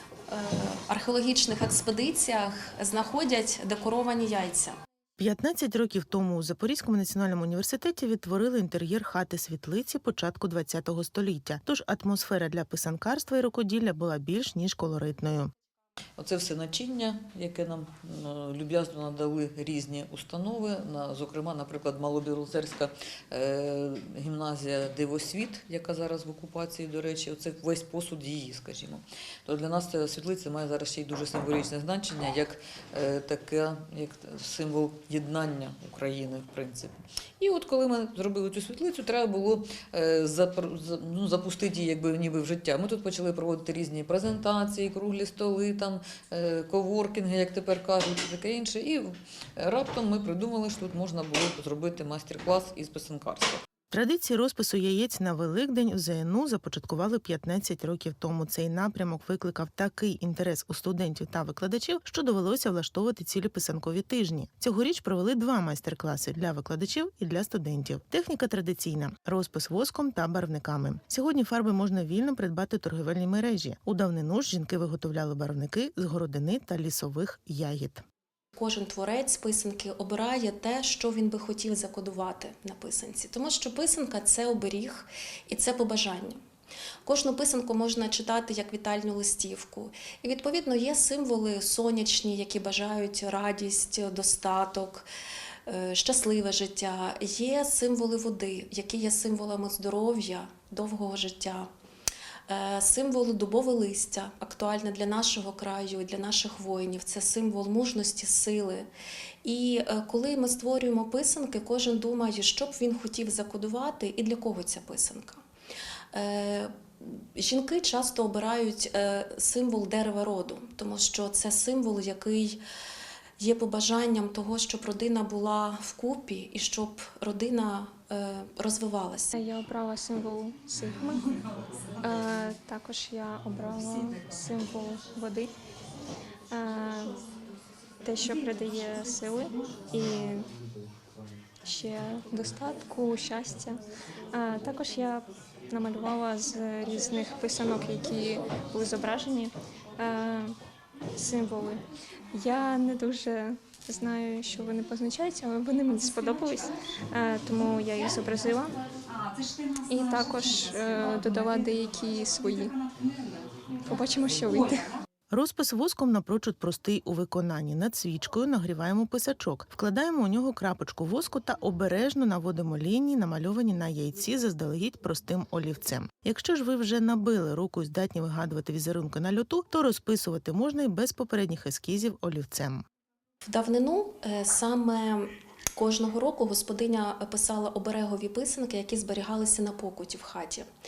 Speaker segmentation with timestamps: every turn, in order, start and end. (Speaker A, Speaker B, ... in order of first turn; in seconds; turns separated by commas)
Speaker A: 0.3-4.8, Speaker B: 5.2-15.5, Speaker C: 16.2-53.6, Speaker B: 53.9-78.0, Speaker A: 78.5-86.4, Speaker A: 87.0-95.0, Speaker A: 95.7-101.7, Speaker A: 102.5-108.9, Speaker A: 109.4-115.4, Speaker A: 116.1-122.6, Speaker A: 123.4-129.3, Speaker D: 129.5-131.1, Speaker D: 132.1-135.5, Speaker D: 136.5-137.0, Speaker D: 138.1-139.4, Speaker D: 139.9-140.4, Speaker D: 141.7-143.7, Speaker D: 144.4-145.2, Speaker D: 145.7-149.5, Speaker D: 150.0-150.5, Speaker D: 151.2-151.8, Speaker D: 152.4-156.6, Speaker D: 157.2-158.6, Speaker D: 159.9-162.6, Speaker D: 163.9-164.5, Speaker B: 165.3-182.8, Speaker A: 183.4-190.7